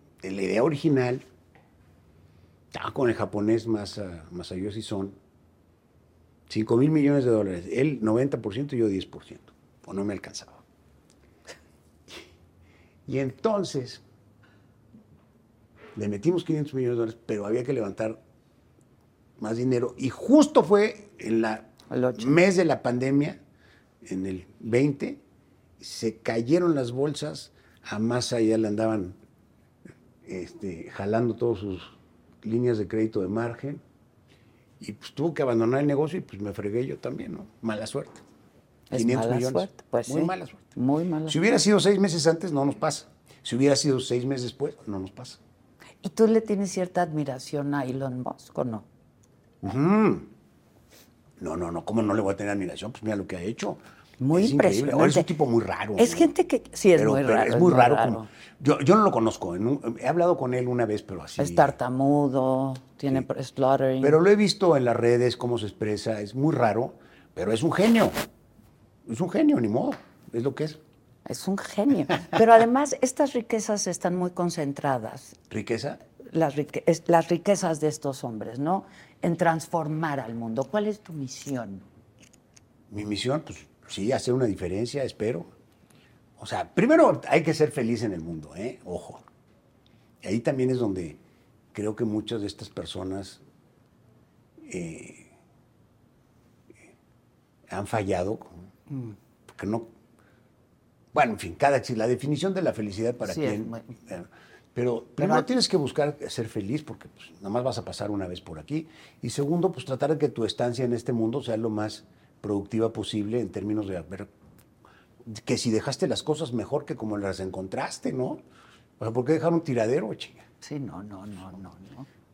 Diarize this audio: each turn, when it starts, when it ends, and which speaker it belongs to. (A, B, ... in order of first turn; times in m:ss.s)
0:00.2-0:01.2 A
0:02.7-0:05.2 A
0:06.5-0:10.6 A
0:13.1-0:14.0 A
0:16.0-0:18.2 A
0:19.4-0:23.4 A
0:21.9-0:22.4 B
0:24.0-0:25.2 A
0:25.8-0:29.2 A
0:30.2-0:33.8 A
0:34.8-0:38.2 A
0:38.9-0:41.4 B
0:38.9-0:40.7 A
0:41.3-0:45.4 A
0:46.0-0:48.9 B
0:49.6-0:50.3 A
0:51.4-0:53.8 A
0:54.2-0:55.3 B
0:54.3-0:56.3 A
0:56.0-0:58.3 B
0:57.0-1:01.8 A
1:01.4-1:04.2 B
1:04.0-1:08.2 A
1:09.1-1:10.8 A
1:11.3-1:15.4 B
1:15.5-1:16.0 A
1:16.3-1:21.8 B
1:22.9-1:25.5 A
1:26.4-1:29.2 A
1:30.2-1:31.2 A
1:31.7-1:33.4 A
1:34.6-1:35.3 A
1:37.7-1:38.5 A
1:38.9-1:39.2 B
1:39.5-1:39.9 A
1:41.1-1:54.3 A
1:43.3-1:43.9 B
1:45.2-1:45.5 B
1:55.2-1:58.4 A
1:59.0-2:00.5 A
2:00.6-2:02.1 B